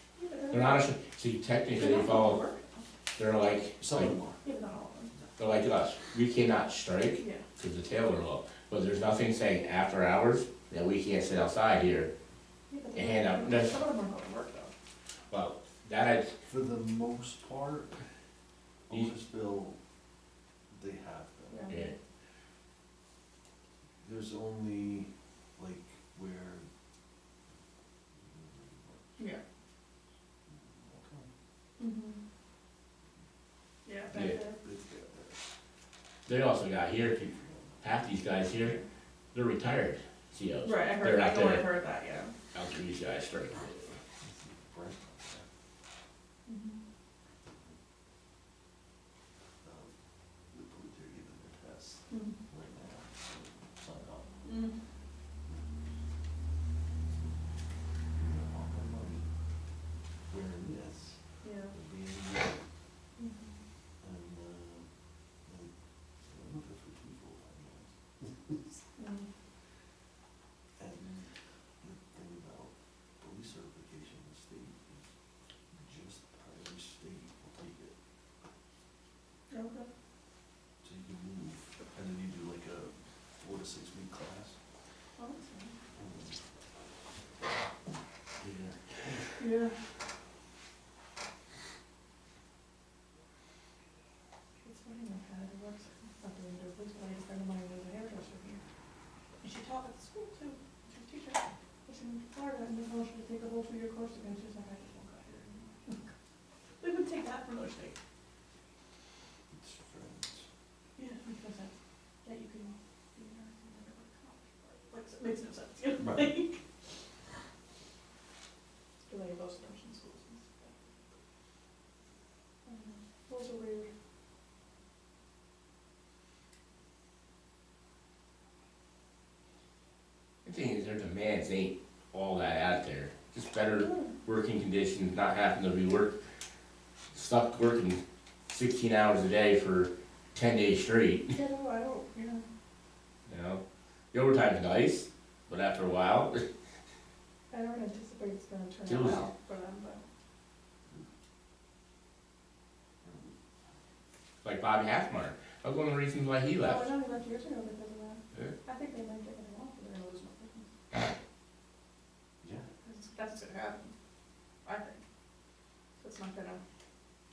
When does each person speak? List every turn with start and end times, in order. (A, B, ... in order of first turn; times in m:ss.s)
0:00.2-0:00.9 A
0:00.5-0:02.4 B
0:01.8-0:02.9 A
0:03.2-0:04.1 B
0:03.8-0:04.4 C
0:04.4-0:05.1 A
0:05.4-0:12.1 B
0:07.2-0:07.4 A
0:12.7-0:14.7 A
0:12.9-0:13.8 B
0:15.3-0:16.3 B
0:16.5-0:17.9 C
0:18.9-0:19.8 C
0:20.7-0:21.8 C
0:21.5-0:21.9 A
0:24.0-0:26.6 C
0:28.2-0:29.2 C
0:30.5-0:31.3 C
0:31.8-0:32.2 A
0:33.8-0:34.6 A
0:34.1-0:34.4 B
0:34.1-0:35.4 C
0:36.3-0:37.2 B
0:37.0-0:37.8 C
0:37.8-0:38.8 B
0:38.6-0:38.8 A
0:39.3-0:41.7 B
0:40.6-0:42.3 A
0:42.5-0:44.0 B
0:44.2-0:45.5 C
0:46.5-0:46.8 A
0:49.6-0:49.9 C
0:50.5-0:54.4 C
0:52.1-0:52.4 A
0:54.4-0:54.8 A
0:57.0-0:57.4 C
0:58.2-0:59.3 C
1:00.3-1:01.2 C
1:01.4-1:01.7 A
1:01.7-1:02.6 C
1:03.2-1:03.5 A
1:04.0-1:04.9 C
1:05.5-1:05.7 C
1:06.3-1:08.6 C
1:09.0-1:09.3 A
1:10.8-1:15.1 C
1:15.7-1:18.0 C
1:19.5-1:19.9 A
1:20.8-1:24.6 C
1:25.2-1:25.8 A
1:26.0-1:26.4 C
1:28.4-1:29.4 C
1:29.4-1:29.7 A
1:34.6-1:38.6 A
1:39.4-1:46.1 A
1:46.8-1:48.0 A
1:49.5-1:50.5 C
1:51.0-1:51.7 A
1:52.2-1:56.6 A
1:56.0-1:56.4 C
1:59.1-2:00.8 A
2:02.7-2:03.9 A
2:10.4-2:16.2 B
2:13.8-2:14.1 A
2:17.1-2:21.3 B
2:21.3-2:22.4 A
2:23.3-2:23.6 B
2:24.1-2:26.4 B
2:27.5-2:30.0 A
2:28.9-2:29.2 B
2:33.0-2:33.3 C
2:34.4-2:36.9 B
2:36.6-2:40.7 A
2:42.4-2:42.7 C
2:42.8-2:43.9 A
2:44.6-2:45.0 A
2:46.0-2:46.6 A